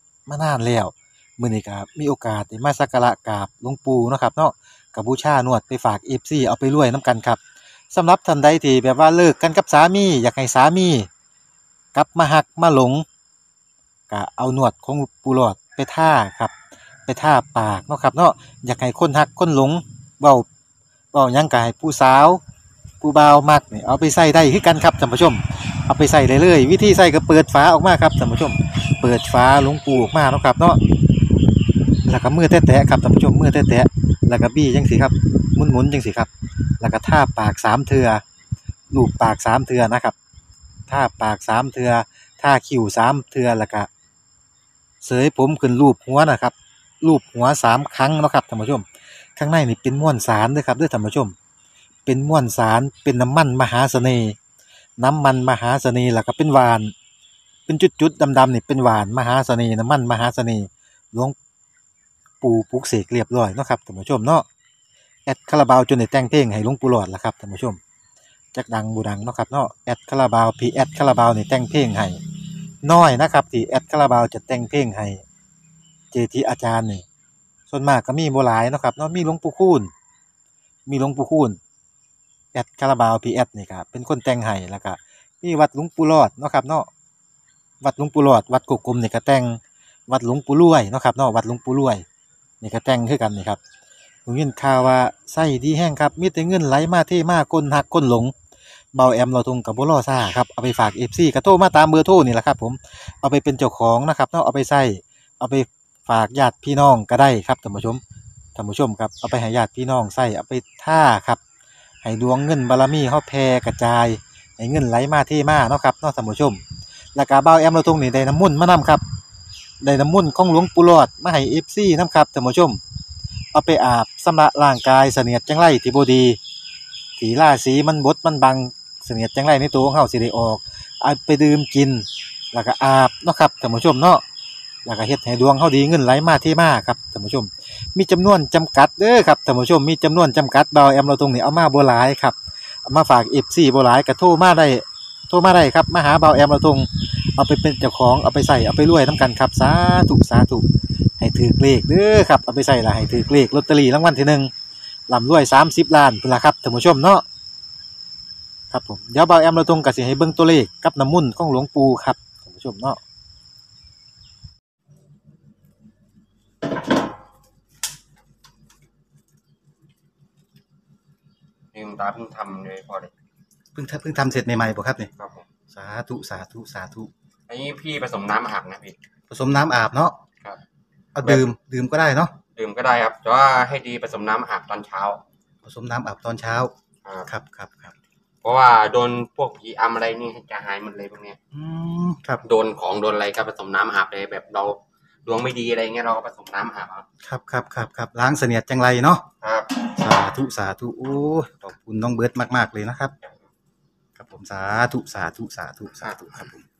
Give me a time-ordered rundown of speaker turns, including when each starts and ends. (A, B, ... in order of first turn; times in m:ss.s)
0:00.3-0:07.4 A
0:07.9-0:11.1 A
0:11.9-0:13.0 A
0:14.1-0:16.5 A
0:17.0-0:20.4 A
0:21.1-0:22.4 A
0:23.0-0:30.8 A
0:32.0-0:38.2 A
0:38.9-0:40.1 A
0:40.9-0:43.9 A
0:45.0-0:48.8 A
0:49.4-0:51.3 A
0:52.0-0:54.4 A
0:55.0-0:56.9 A
0:57.7-1:01.4 A
1:02.4-1:04.4 A
1:05.2-1:07.8 A
1:08.5-1:12.2 A
1:12.8-1:15.2 A
1:16.1-1:17.0 A
1:17.7-1:19.9 A
1:20.9-1:21.6 A
1:22.5-1:26.9 A
1:27.8-1:32.0 A
1:32.6-1:33.6 A
1:34.2-1:38.3 A
1:38.9-1:48.0 A
1:48.5-1:51.4 A
1:52.0-1:56.6 A
1:57.1-1:59.0 A
1:59.8-2:02.8 A
2:03.5-2:06.4 A
2:07.2-2:14.2 A
2:14.8-2:30.6 A
2:31.2-2:34.5 A
2:35.1-2:37.2 A
2:38.7-2:43.0 A
2:51.7-2:53.1 B
2:53.7-2:55.1 A
2:55.2-2:55.4 B
2:55.7-2:57.1 A
2:57.5-2:59.0 B
2:59.3-3:00.1 A
3:01.1-3:02.3 A
3:01.2-3:01.4 B
3:02.5-3:05.2 B
3:05.6-3:06.7 A
3:07.2-3:07.9 A
3:08.4-3:11.4 B
3:11.5-3:12.4 A
3:12.4-3:17.0 B
3:17.2-3:19.2 A
3:19.4-3:19.7 B
3:19.9-3:23.1 A
3:24.2-3:26.6 A
3:26.0-3:26.3 B